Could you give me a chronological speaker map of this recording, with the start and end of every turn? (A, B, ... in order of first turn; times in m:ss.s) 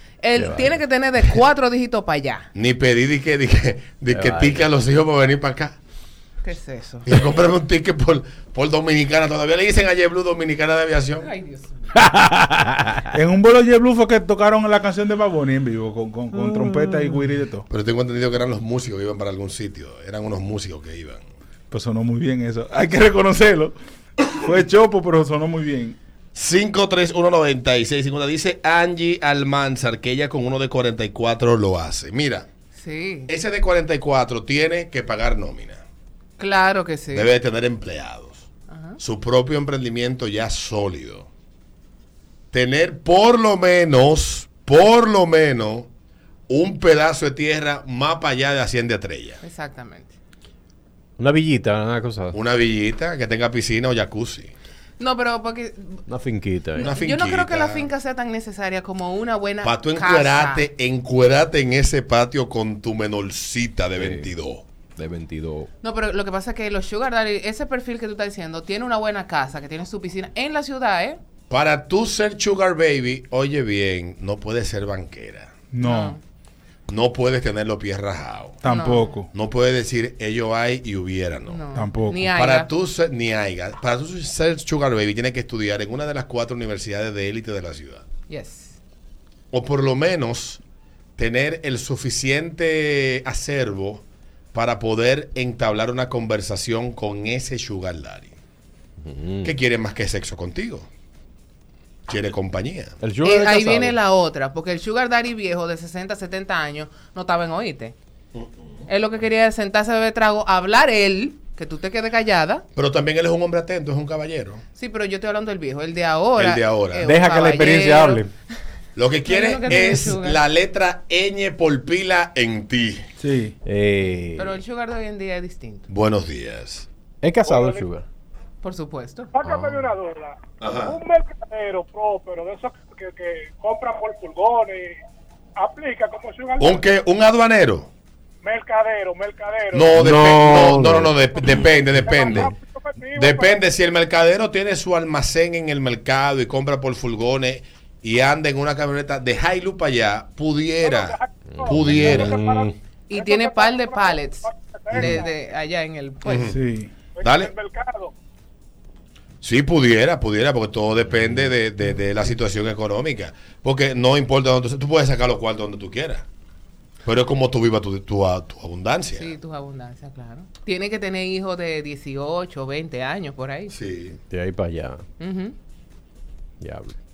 0:00.2-0:02.5 A
0:00.3-0:00.8 B
0:02.5-0:05.8 C
0:04.1-0:04.7 B
0:06.4-0:07.1 A
0:07.1-0:11.3 C
0:11.2-0:12.0 A
0:11.9-0:13.1 B
0:13.1-0:17.6 D
0:16.3-0:17.3 B
0:17.7-0:21.2 C
0:21.7-0:23.7 D
0:24.4-0:26.0 D
0:26.3-0:32.5 C
0:32.7-0:33.3 A
0:33.3-0:35.8 C
0:36.4-0:37.3 A
0:37.1-0:38.4 C
0:38.7-0:39.0 A
0:39.0-0:41.3 C
0:42.5-0:45.9 C
0:46.5-0:49.4 C
0:49.4-0:50.1 A
0:51.2-0:52.4 B
0:52.3-0:54.5 C
0:55.0-0:56.0 A
0:56.1-0:56.9 B
0:56.8-0:57.9 C
0:56.8-1:00.7 A
0:59.6-1:04.6 C
1:04.0-1:04.3 B
1:05.0-1:05.7 B
1:05.8-1:11.2 A
1:11.5-1:15.5 C
1:15.7-1:16.1 D
1:15.8-1:16.2 A
1:16.9-1:18.6 C
1:18.6-1:19.3 D
1:18.6-1:19.1 A
1:19.3-1:21.6 C
1:21.5-1:22.7 A
1:21.7-1:22.2 D
1:22.3-1:28.0 C
1:28.3-1:28.8 A
1:29.5-1:30.6 C
1:31.2-1:38.3 C
1:39.0-1:39.6 B
1:39.4-1:40.9 C
1:42.1-1:43.0 C
1:43.0-1:44.0 B
1:43.2-1:47.9 A
1:48.3-1:48.7 C
1:48.9-1:52.6 A
1:52.8-1:54.6 C
1:54.8-1:58.2 A
1:56.4-1:57.1 C
1:57.0-1:58.3 B
1:59.0-2:03.0 C
1:59.2-2:00.4 A
2:03.2-2:03.6 D
2:03.6-2:04.6 B
2:04.4-2:05.9 A
2:05.9-2:06.9 C
2:07.2-2:08.0 B
2:07.4-2:07.9 E
2:08.6-2:09.3 A
2:09.3-2:14.9 E
2:09.5-2:09.9 C
2:10.6-2:11.0 C
2:15.6-2:16.9 E
2:16.6-2:17.9 C
2:18.4-2:20.6 E
2:19.7-2:22.5 C
2:20.0-2:22.5 B
2:21.2-2:23.6 E
2:23.1-2:32.4 C
2:30.8-2:35.3 E
2:31.4-2:32.7 B
2:33.1-2:36.6 A
2:34.9-2:35.2 C
2:36.2-2:36.6 C
2:36.5-2:36.9 D
2:37.2-2:38.1 E
2:37.2-2:37.5 C
2:39.4-2:46.2 C
2:41.1-2:41.5 B
2:47.0-2:49.3 C
2:49.2-2:53.7 A
2:53.7-2:54.2 C
2:54.3-2:55.0 B
2:55.2-2:55.5 A
2:56.6-2:57.0 B